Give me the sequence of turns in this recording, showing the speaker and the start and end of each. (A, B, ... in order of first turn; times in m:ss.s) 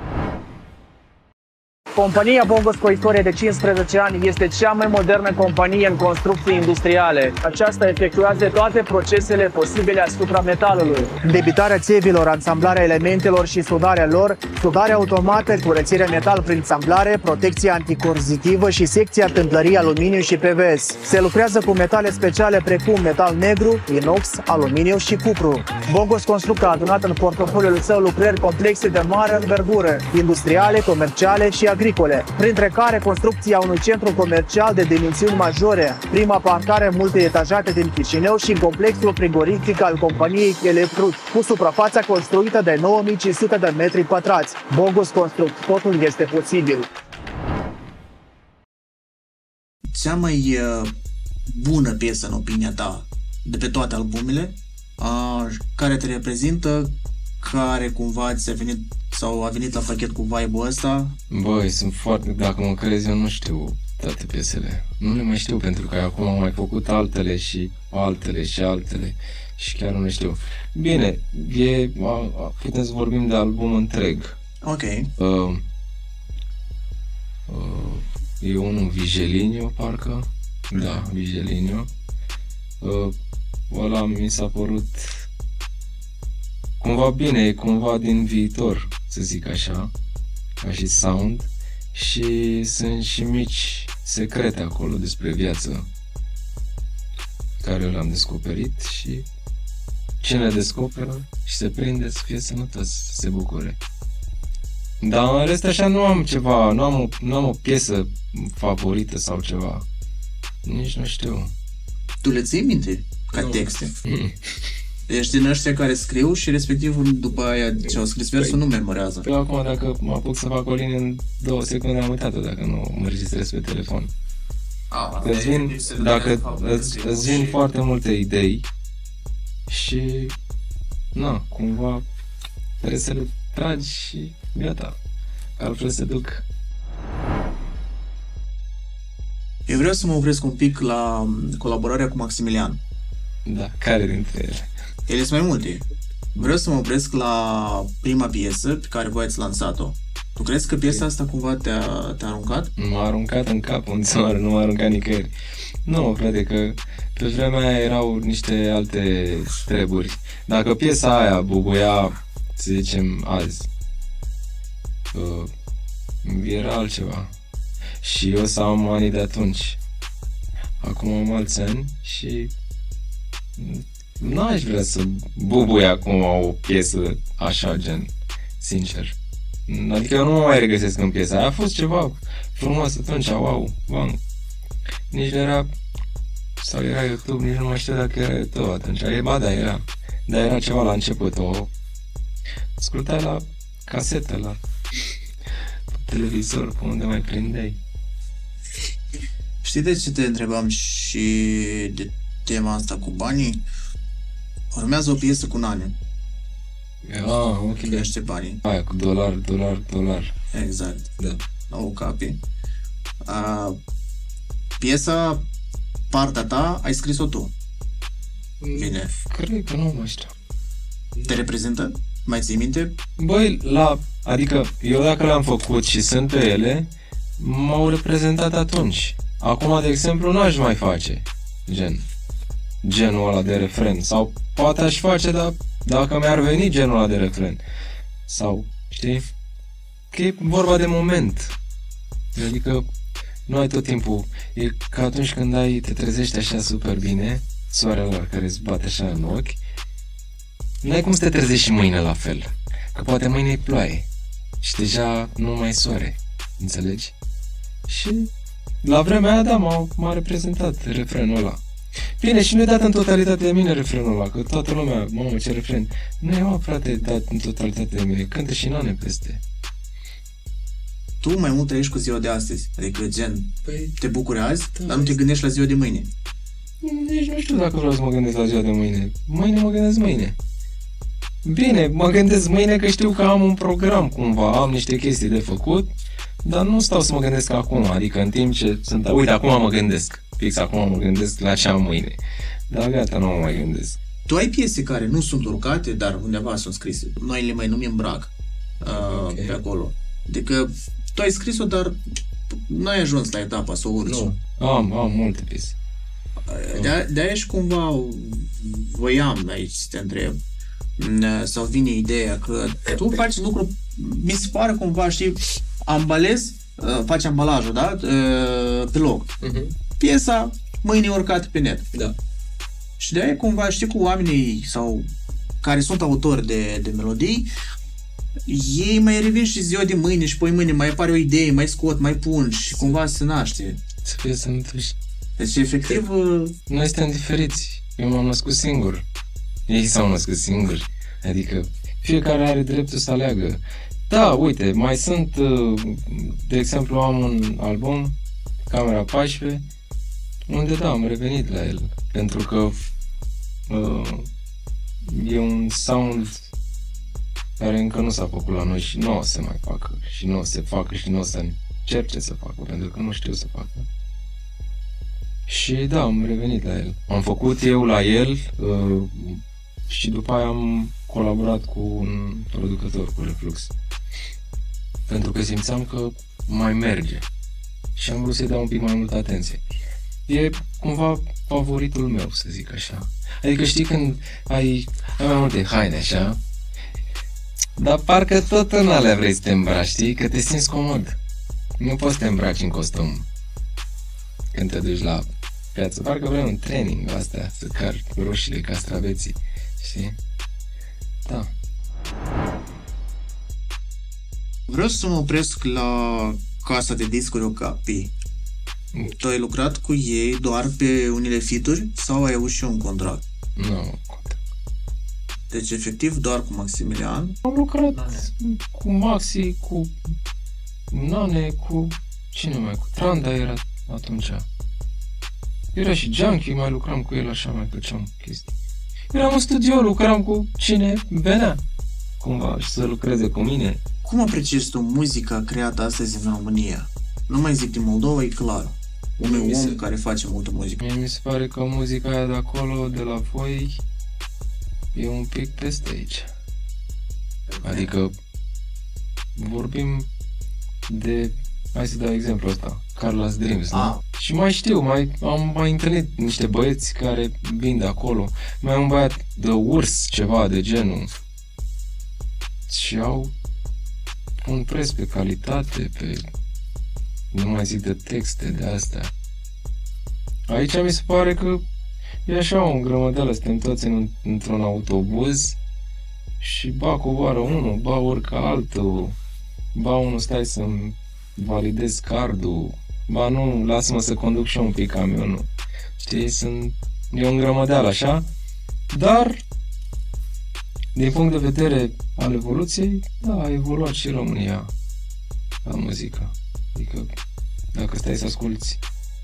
0:02.0-0:46.9 A
0:49.9-0:50.9 B
0:51.5-1:01.2 B
1:01.3-1:14.4 C
1:14.6-1:15.1 B
1:15.2-1:15.7 C
1:17.5-1:21.9 C
1:22.8-1:23.1 C
1:23.7-1:25.3 C
1:26.8-1:29.9 C
1:30.6-1:35.9 C
1:37.6-1:39.3 C
1:40.2-1:43.8 C
1:45.0-1:49.9 C
1:50.6-1:51.5 C
1:52.2-1:54.0 B
1:53.3-1:54.6 C
1:55.1-1:59.3 B
1:59.2-2:04.1 C
2:04.9-2:07.6 B
2:05.2-2:08.7 C
2:09.7-2:10.4 C
2:11.2-2:12.0 C
2:12.8-2:15.0 C
2:15.6-2:16.4 C
2:19.7-2:22.8 B
2:23.4-2:24.7 C
2:25.1-2:25.8 B
2:26.4-2:32.7 B
2:32.8-2:35.3 C
2:35.9-2:43.7 C
2:45.1-2:45.5 C
2:46.2-2:47.4 C
2:48.0-2:49.8 C
2:50.8-2:52.5 C
2:53.6-2:59.2 C
2:59.7-3:04.2 C
3:05.1-3:05.7 C
3:06.6-3:11.7 C
3:12.8-3:14.6 C
3:15.9-3:17.8 C
3:19.6-3:23.6 B
3:24.7-3:26.0 B
3:27.0-3:28.1 C
3:27.7-3:28.6 B
3:28.6-3:30.4 C
3:30.5-3:31.1 B
3:31.7-3:32.4 B
3:33.2-3:33.8 B
3:34.8-3:35.5 B
3:36.1-3:37.5 B
3:38.6-3:40.4 C
3:38.7-3:39.1 B
3:41.2-3:43.0 B
3:43.2-3:52.0 C
3:52.8-3:57.6 C
3:58.3-3:59.2 C
4:00.1-4:01.6 C
4:02.4-4:02.8 C
4:03.5-4:09.6 C
4:10.8-4:14.1 C
4:14.6-4:17.1 C
4:17.9-4:18.3 C
4:18.8-4:21.6 C
4:22.2-4:29.4 C
4:31.2-4:36.1 B
4:33.6-4:34.0 C
4:34.8-4:35.2 C
4:36.8-4:40.4 C
4:41.4-4:45.9 C
4:46.4-4:52.2 C
4:52.7-4:54.0 C
4:54.3-5:02.0 B
4:58.9-4:59.6 C
5:02.5-5:04.4 B
5:04.0-5:05.8 C
5:06.4-5:10.4 B
5:11.0-5:19.4 B
5:19.4-5:19.7 C
5:20.0-5:21.9 B
5:23.0-5:25.1 B
5:25.6-5:27.5 B
5:28.5-5:33.8 B
5:34.0-5:35.0 C
5:35.4-5:36.6 B
5:36.7-5:39.0 C
5:39.7-5:49.6 C
5:50.5-5:52.8 C
5:53.7-5:54.3 C
5:55.0-5:56.5 C
5:57.6-6:03.9 C
6:05.5-6:13.7 C
6:15.1-6:17.3 C
6:18.0-6:19.6 C
6:20.3-6:26.4 C
6:27.8-6:31.2 C
6:31.8-6:33.3 C
6:34.5-6:40.2 C
6:41.3-6:41.5 C
6:44.7-6:48.1 B
6:49.1-6:53.2 B
6:53.6-6:54.4 C
6:55.5-6:58.3 B
6:57.4-6:59.9 C
7:00.9-7:04.5 C
7:05.7-7:08.6 C
7:09.1-7:11.6 C
7:12.2-7:13.8 C
7:14.0-7:20.8 B
7:19.2-7:19.8 C
7:20.8-7:23.8 C
7:24.9-7:26.3 C
7:27.6-7:27.9 B
7:27.6-7:28.1 C
7:29.4-7:30.1 C
7:30.9-7:41.1 C
7:33.7-7:34.0 B
7:42.7-7:43.3 C
7:44.4-7:46.3 C
7:47.3-7:49.1 C
7:50.5-7:51.6 C
7:52.3-7:55.6 C
7:56.4-7:59.2 C
7:59.7-8:05.5 C
8:06.0-8:08.2 C
8:08.9-8:09.4 C
8:11.0-8:14.7 C
8:15.6-8:17.1 C
8:17.7-8:18.8 C